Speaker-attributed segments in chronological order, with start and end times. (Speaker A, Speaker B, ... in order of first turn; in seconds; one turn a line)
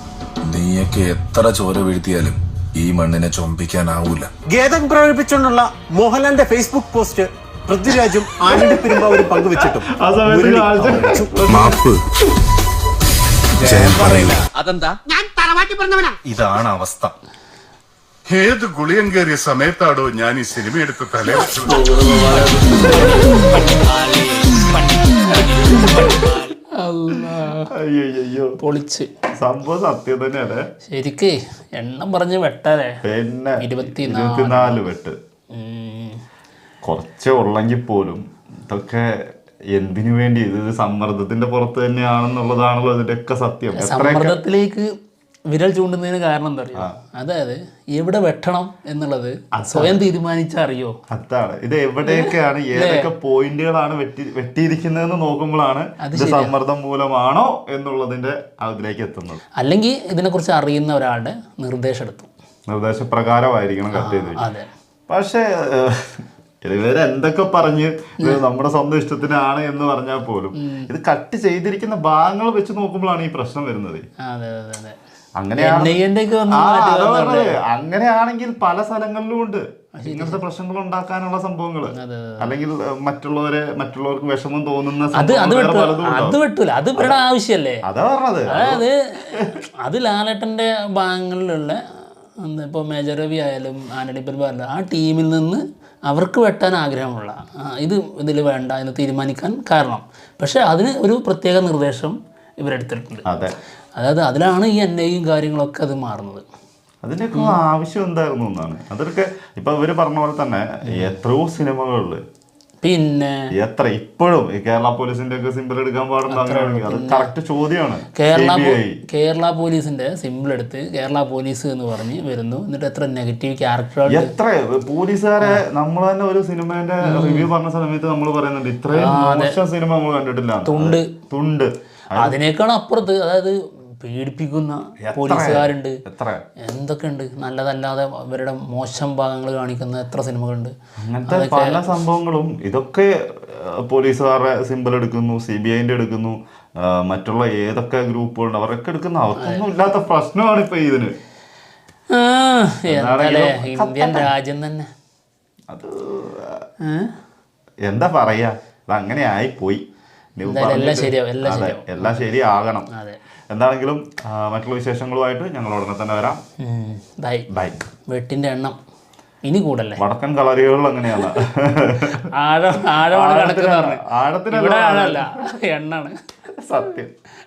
Speaker A: 0.5-4.3
Speaker B: 4.5-11.8
Speaker C: 9.9-11.7
Speaker B: 13.6-14.1
Speaker A: 13.8-14.4
Speaker D: 25.5-27.7
Speaker C: 27.2-28.5
Speaker D: 28.6-29.1
Speaker C: 29.4-30.6
Speaker D: 30.9-33.0
Speaker C: 33.0-35.1
Speaker D: 33.6-34.8
Speaker D: 35.5-36.2
Speaker C: 36.8-44.4
Speaker D: 43.8-44.9
Speaker D: 45.5-50.9
Speaker C: 49.5-50.0
Speaker C: 51.1-59.4
Speaker D: 52.0-53.1
Speaker D: 56.0-56.5
Speaker D: 59.6-62.3
Speaker C: 62.7-64.4
Speaker D: 63.9-64.7
Speaker C: 65.1-74.0
Speaker D: 70.6-70.9
Speaker D: 74.2-75.0
Speaker C: 75.4-86.4
Speaker D: 75.6-77.5
Speaker D: 80.0-80.4
Speaker D: 81.9-82.5
Speaker D: 85.1-87.8
Speaker C: 87.9-89.5
Speaker D: 88.5-91.8
Speaker D: 92.4-103.2
Speaker C: 103.2-103.5
Speaker D: 104.0-106.4
Speaker C: 107.0-112.2
Speaker D: 107.3-107.6
Speaker D: 112.8-113.5
Speaker C: 113.5-119.0
Speaker D: 116.3-117.3
Speaker D: 118.2-124.3
Speaker C: 124.1-132.4
Speaker D: 127.0-127.5
Speaker D: 128.9-129.6
Speaker D: 130.7-131.1
Speaker D: 132.2-135.9
Speaker C: 135.0-136.4
Speaker D: 136.6-140.7
Speaker C: 141.0-151.1
Speaker D: 141.3-141.8
Speaker D: 149.4-149.6
Speaker D: 152.1-154.9
Speaker C: 152.9-154.3
Speaker C: 155.7-156.7
Speaker C: 157.8-159.8
Speaker C: 160.4-162.9
Speaker D: 160.4-162.3
Speaker D: 162.9-163.2
Speaker C: 163.5-166.4
Speaker D: 166.6-167.5
Speaker C: 167.5-167.8
Speaker D: 168.1-168.8
Speaker D: 169.4-170.0
Speaker C: 170.0-172.1
Speaker D: 172.4-174.0
Speaker C: 173.1-175.2
Speaker D: 174.5-176.1
Speaker C: 176.6-177.1